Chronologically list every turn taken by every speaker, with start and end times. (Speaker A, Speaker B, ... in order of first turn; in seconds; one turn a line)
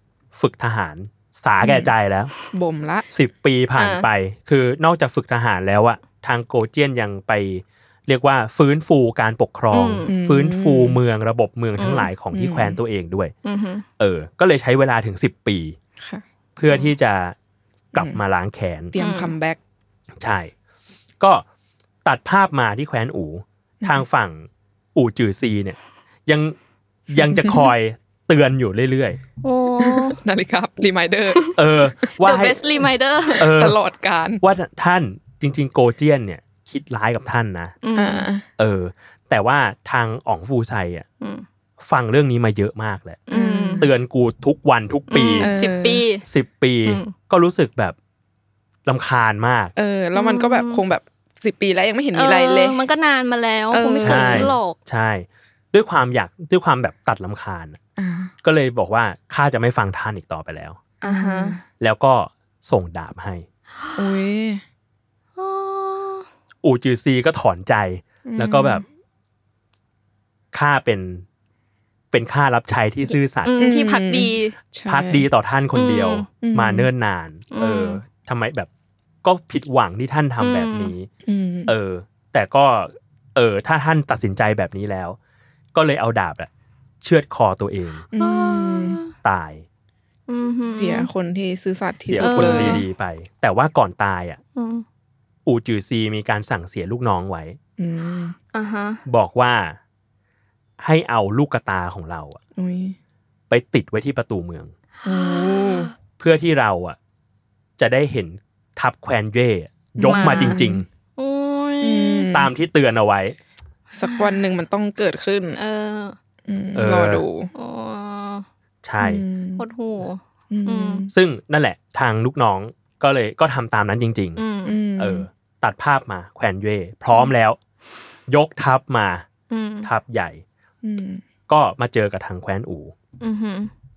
Speaker A: 0.3-2.3
Speaker B: 1.6-1.9
Speaker B: 2.5-3.1
Speaker A: 3.1-13.3
Speaker C: 3.8-4.1
Speaker C: 9.7-10.1
Speaker B: 10.1-11.0
Speaker C: 11.8-12.1
Speaker B: 12.3-12.8
Speaker C: 13.4-13.9
Speaker A: 14.0-15.8
Speaker B: 16.0-16.2
Speaker A: 16.6-17.4
Speaker B: 17.9-18.2
Speaker A: 17.9-18.9
Speaker B: 18.9-19.6
Speaker C: 19.0-19.3
Speaker A: 20.2-20.5
Speaker A: 22.0-26.6
Speaker A: 27.1-29.2
Speaker B: 27.2-27.7
Speaker C: 29.4-30.2
Speaker B: 29.8-31.6
Speaker C: 31.3-31.6
Speaker A: 31.6-32.6
Speaker C: 32.1-33.5
Speaker B: 33.3-34.4
Speaker A: 33.4-33.8
Speaker A: 34.4-37.8
Speaker C: 37.8-38.3
Speaker B: 38.0-38.5
Speaker A: 38.6-41.1
Speaker A: 41.8-43.2
Speaker C: 43.3-43.9
Speaker B: 43.3-43.9
Speaker A: 43.8-45.5
Speaker C: 45.1-46.2
Speaker B: 45.4-46.0
Speaker A: 46.2-48.0
Speaker C: 46.9-47.1
Speaker A: 48.9-49.7
Speaker B: 49.8-52.8
Speaker C: 50.1-50.8
Speaker C: 52.1-54.8
Speaker B: 53.7-54.5
Speaker A: 54.0-57.8
Speaker B: 58.0-58.3
Speaker A: 58.4-60.8
Speaker C: 61.0-61.6
Speaker B: 61.0-61.6
Speaker A: 61.8-63.5
Speaker B: 64.0-64.6
Speaker C: 65.4-66.3
Speaker A: 66.6-68.8
Speaker B: 68.2-68.8
Speaker A: 70.5-71.3
Speaker A: 72.1-73.6
Speaker C: 73.4-74.5
Speaker B: 73.6-75.3
Speaker A: 74.9-78.7
Speaker C: 75.7-76.3
Speaker B: 76.4-76.9
Speaker C: 77.5-78.0
Speaker A: 79.2-81.1
Speaker C: 80.4-80.9
Speaker B: 81.2-81.7
Speaker A: 81.7-85.2
Speaker A: 85.7-86.5
Speaker A: 87.0-88.0
Speaker B: 88.1-89.0
Speaker C: 88.2-89.1
Speaker A: 89.2-89.7
Speaker C: 90.3-91.1
Speaker B: 90.6-92.8
Speaker A: 92.0-94.4
Speaker C: 92.2-92.8
Speaker C: 94.6-94.8
Speaker A: 95.5-97.6
Speaker B: 97.8-98.4
Speaker C: 98.5-99.0
Speaker A: 99.1-99.8
Speaker A: 100.8-102.4
Speaker B: 102.6-103.0
Speaker A: 103.5-104.7
Speaker C: 105.0-105.9
Speaker B: 105.0-105.9
Speaker A: 106.2-107.0
Speaker A: 107.8-110.8
Speaker B: 110.0-110.8
Speaker C: 110.1-110.6
Speaker C: 111.2-112.3
Speaker B: 111.8-112.5
Speaker A: 112.3-113.4
Speaker B: 113.9-115.6
Speaker C: 114.0-114.3
Speaker C: 115.6-116.2
Speaker B: 116.5-117.5
Speaker A: 116.8-117.2
Speaker C: 117.5-118.5
Speaker A: 118.8-119.2
Speaker B: 119.0-119.6
Speaker C: 119.6-121.1
Speaker B: 120.5-121.1
Speaker A: 121.1-124.4
Speaker C: 124.4-124.8
Speaker B: 124.7-125.3
Speaker A: 125.0-127.6
Speaker A: 128.3-129.3
Speaker C: 129.5-129.9
Speaker A: 129.8-130.4
Speaker B: 130.8-131.2
Speaker A: 131.5-132.9
Speaker C: 133.2-133.7